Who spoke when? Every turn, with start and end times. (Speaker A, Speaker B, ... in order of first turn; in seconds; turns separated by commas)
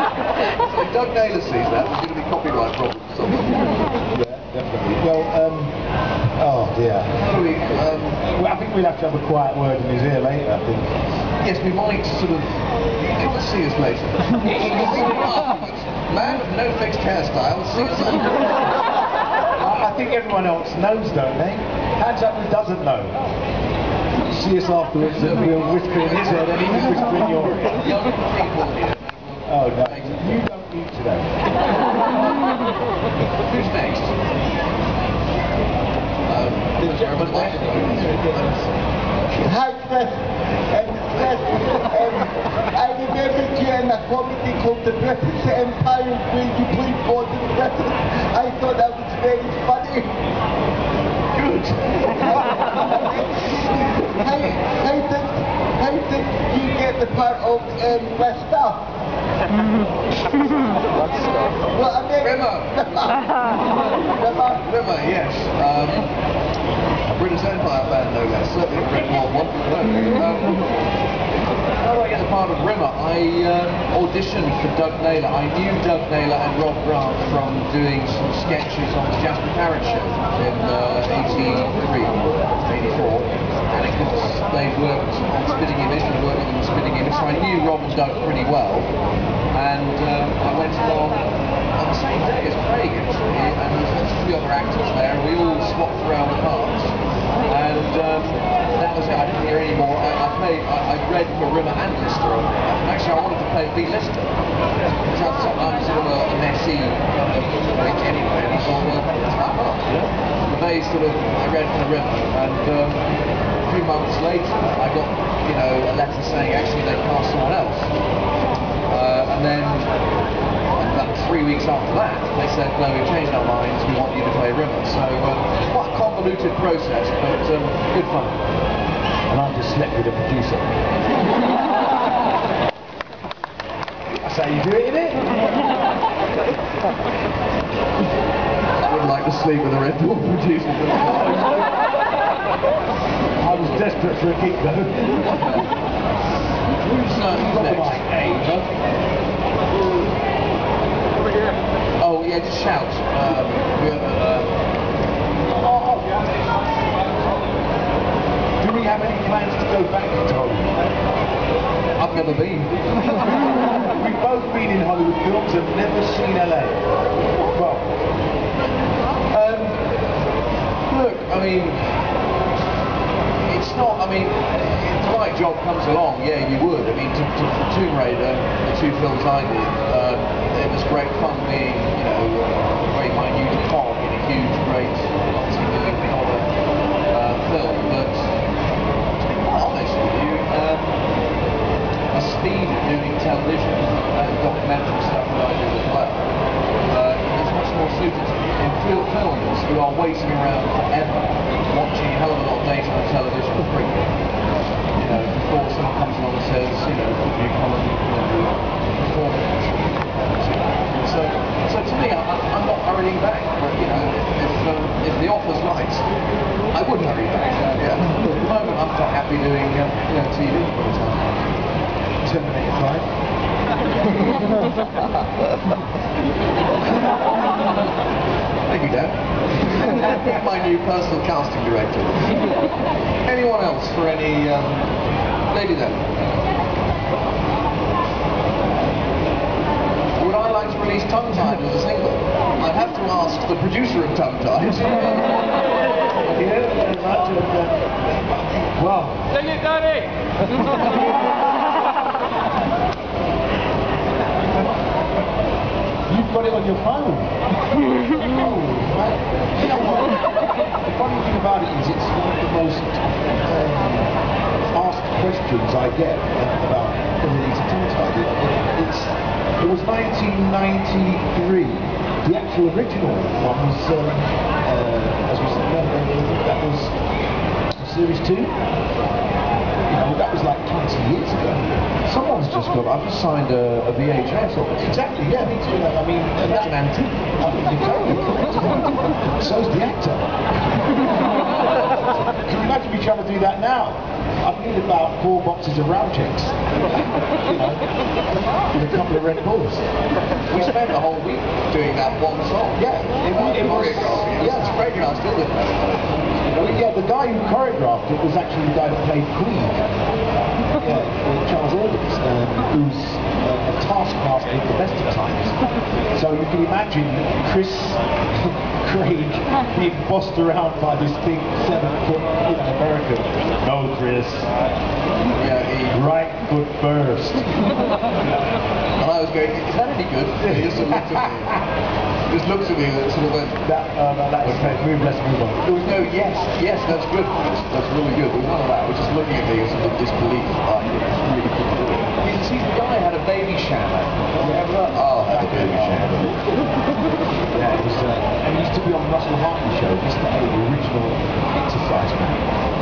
Speaker A: 0.3-3.8, Speaker B: 4.1-5.8, Speaker B: 6.4-11.0, Speaker A: 7.1-8.2, Speaker A: 11.4-18.8, Speaker B: 14.4-15.4, Speaker B: 19.6-23.2, Speaker B: 24.2-27.9, Speaker A: 25.1-30.4, Speaker B: 29.5-31.4, Speaker A: 33.4-34.2, Speaker A: 36.3-38.7, Speaker B: 36.8-38.7, Speaker C: 39.4-50.1, Speaker A: 51.3-52.9, Speaker C: 52.7-58.9, Speaker A: 61.1-61.5, Speaker C: 61.7-63.2, Speaker A: 62.1-63.2, Speaker A: 64.1-66.2, Speaker A: 67.1-70.6, Speaker A: 71.8-88.9, Speaker A: 89.5-96.9, Speaker A: 97.5-104.4, Speaker A: 104.9-113.1, Speaker A: 113.6-117.9, Speaker A: 118.9-119.9, Speaker A: 120.8-128.4, Speaker B: 129.3-130.8, Speaker B: 134.2-135.3, Speaker A: 138.8-141.5, Speaker B: 140.9-141.7, Speaker B: 143.4-145.3, Speaker A: 145.2-145.7, Speaker A: 146.8-148.6, Speaker B: 147.2-148.7, Speaker A: 152.0-154.5, Speaker B: 155.4-156.4, Speaker B: 158.6-161.0, Speaker A: 162.0-162.8, Speaker B: 162.9-166.8, Speaker B: 167.5-167.9, Speaker A: 169.3-170.0, Speaker A: 170.9-172.1, Speaker A: 173.4-186.5, Speaker A: 187.1-188.4, Speaker A: 189.4-191.0, Speaker A: 192.1-196.3, Speaker A: 196.9-204.1, Speaker A: 205.0-216.1, Speaker A: 216.7-221.5, Speaker B: 222.2-223.1, Speaker A: 228.7-232.4, Speaker A: 233.2-234.9, Speaker A: 235.5-236.0, Speaker A: 240.2-245.6, Speaker B: 246.2-249.4, Speaker B: 256.1-257.3, Speaker B: 258.3-260.2, Speaker B: 260.9-264.1, Speaker B: 264.7-276.9, Speaker B: 277.7-278.5, Speaker B: 279.9-281.8, Speaker A: 282.1-284.9, Speaker B: 284.8-286.8, Speaker A: 286.5-287.2, Speaker B: 287.4-290.3, Speaker B: 292.0-297.8, Speaker B: 298.7-299.9, Speaker A: 300.5-306.9, Speaker B: 302.8-304.8, Speaker B: 306.5-309.8, Speaker B: 310.8-315.6, Speaker B: 316.1-324.5, Speaker A: 325.4-326.0, Speaker B: 325.9-327.5, Speaker A: 329.0-331.7, Speaker B: 330.4-331.6, Speaker A: 332.3-333.7, Speaker B: 333.6-335.8, Speaker A: 334.4-334.9, Speaker A: 335.6-346.4, Speaker B: 344.4-346.4, Speaker B: 347.5-352.5